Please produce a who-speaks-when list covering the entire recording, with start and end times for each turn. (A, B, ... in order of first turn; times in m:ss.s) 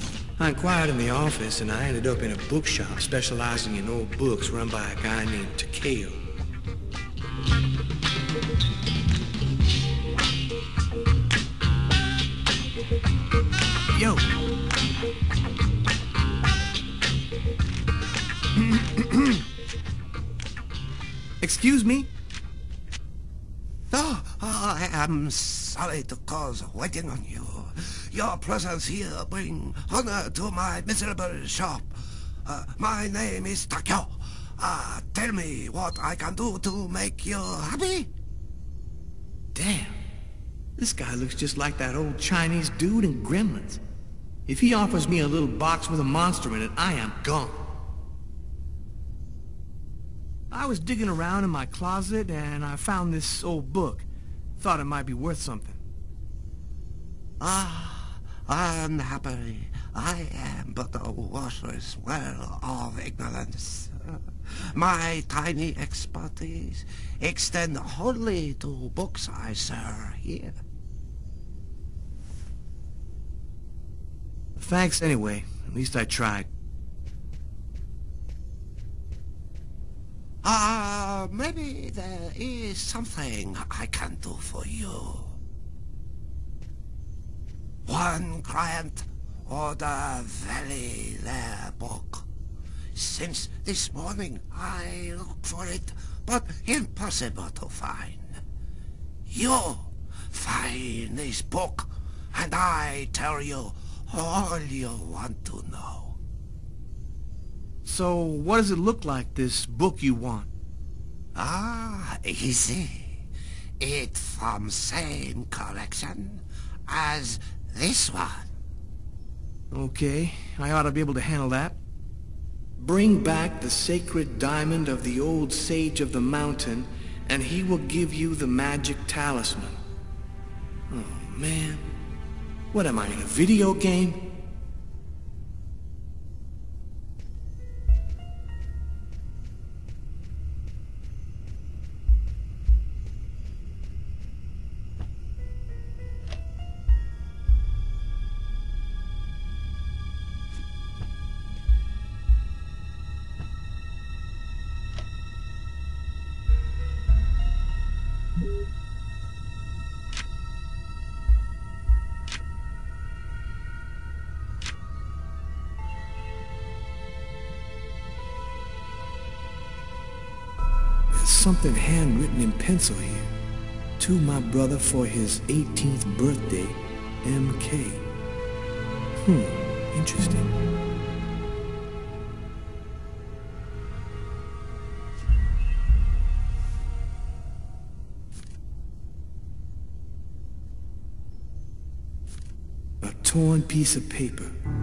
0:00.4-0:06.2 A
0:13.9-0:14.3 A
0:18.8-0:19.4 A
0:21.4-0:22.1 A
0:23.9-0:38.1 B
0:39.5-0:40.0 A
0:40.8-0:43.8 A
0:44.4-0:47.6 A
0:50.5-0:54.0 A
0:54.6-0:55.8 A
0:57.4-1:10.6 B
1:14.6-1:16.5 A
1:20.4-1:25.4 B
1:27.8-1:32.2 B
1:32.9-1:38.3 B
1:39.3-1:46.2 B
1:47.8-1:50.5 A
1:51.3-1:53.2 B
1:53.8-1:58.5 B
1:59.7-2:01.8 A
2:02.8-2:09.8 A
2:10.9-2:11.9 A
2:12.7-2:14.3 A
2:51.1-2:53.3 A
2:54.0-2:58.0 A
2:59.2-3:00.5 A
3:13.0-3:14.5 A